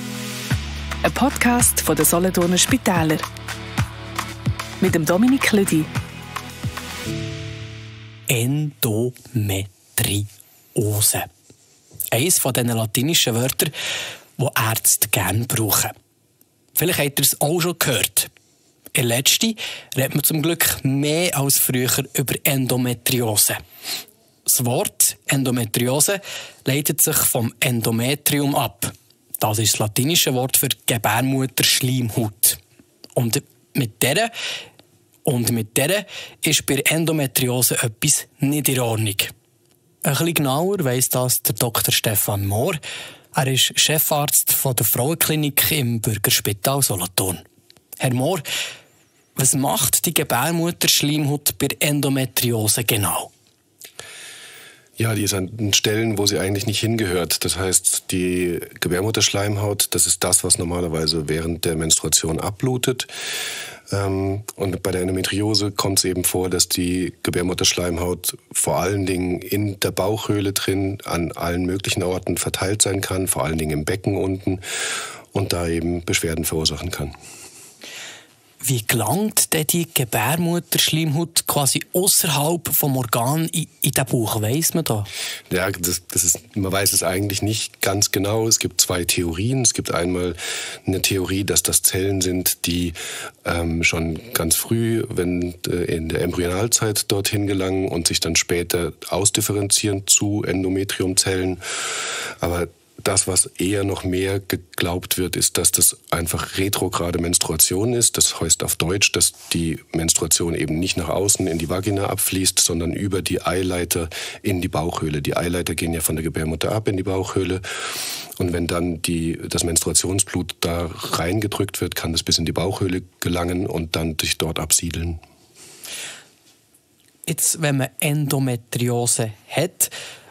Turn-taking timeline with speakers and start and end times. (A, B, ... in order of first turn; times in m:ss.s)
0:01.0-0:03.2 A
0:04.8-0:05.9 A
0:08.3-0:11.3 B
0:12.1-0:13.7 B
0:14.4-0:15.9 B
0:16.8-0:18.3 B
0:18.9-0:23.6 B
0:24.5-0:32.6 B
0:33.2-0:34.3 B
0:35.2-0:39.3 B
0:40.0-0:42.8 B
0:43.3-0:47.4 B
0:48.0-0:48.4 B
0:49.4-0:53.3 B
0:55.0-1:03.1 C
1:03.9-1:14.6 C
1:15.3-1:17.1 C
1:18.6-1:25.1 B
1:25.5-1:57.6 C
1:58.4-2:05.2 C
2:07.3-2:09.9 B